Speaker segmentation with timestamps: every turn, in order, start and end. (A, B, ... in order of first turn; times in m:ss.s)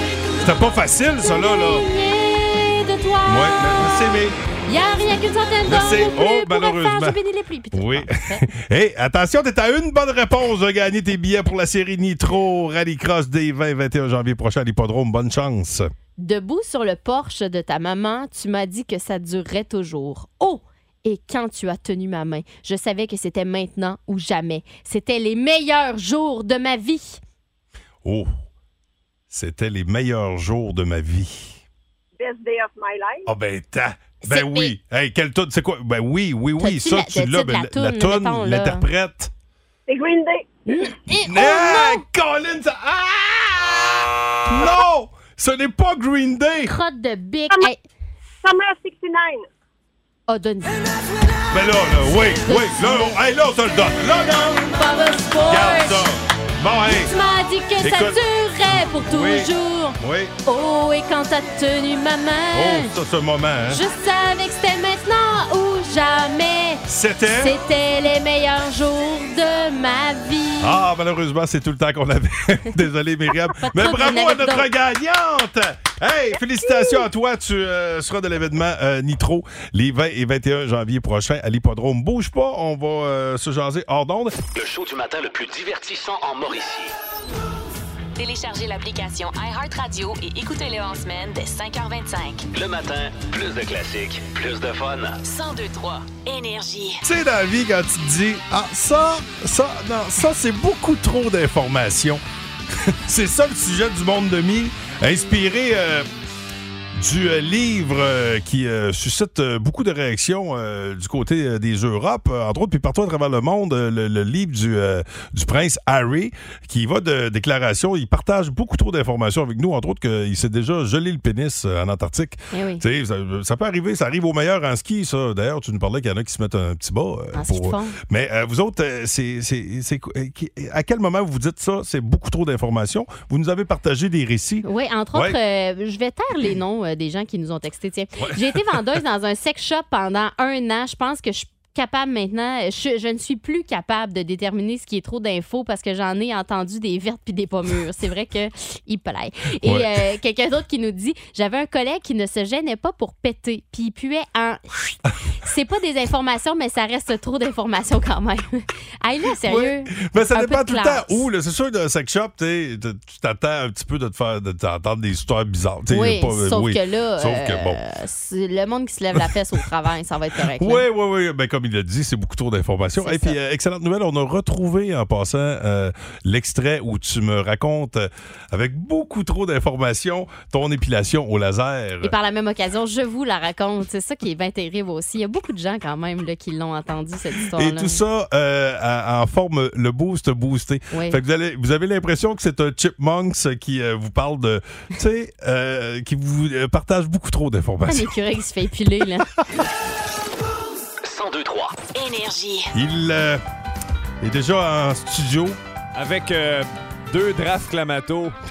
0:00.4-0:01.9 A
0:01.2-0:08.4 B
0:03.3-0:04.4 A
0:05.7-0:07.2 A
0:07.7-0:15.9 A
0:16.2-0:27.2 B
0:28.0-0:28.3 A
0:29.3-0:31.6 A
0:32.2-0:33.3 C
0:33.3-0:39.3 A
0:34.3-0:34.7 B
0:36.6-0:38.9 B
0:39.9-0:40.5 C
0:40.7-0:42.0 B
0:41.2-0:46.7 A
0:46.7-0:47.8 B
0:48.4-0:49.4 C
0:50.3-0:50.8 B
0:51.5-0:54.8 A
0:52.4-0:53.2 B
0:54.7-0:56.1 B
0:55.4-0:57.1 A
0:56.9-1:02.9 B
0:57.8-1:00.3 A
1:02.5-1:03.8 A
1:03.7-1:06.8 B
1:06.9-1:07.6 A
1:07.4-1:10.8 B
1:10.6-1:24.4 A
1:13.6-1:14.7 B
1:24.5-1:26.9 D
1:28.2-1:32.5 E
1:32.5-1:35.2 D
1:35.2-1:37.0 E
1:37.0-1:42.2 A
1:42.7-1:46.1 A
1:47.0-2:15.4 A
2:02.5-2:02.8 B
2:07.4-2:08.0 B
2:14.6-2:41.3 B
2:18.2-2:18.9 A
2:29.6-2:29.9 A
2:39.4-2:47.8 A
2:45.9-2:50.8 B
2:50.5-3:02.1 A
2:53.0-2:53.4 B
3:02.0-3:08.0 B
3:07.6-3:18.1 A
3:10.9-3:11.2 B
3:17.9-3:19.3 B
3:21.0-3:21.8 D
3:21.9-3:22.7 E
3:22.7-3:23.4 A
3:24.2-3:25.6 A
3:26.0-3:28.4 F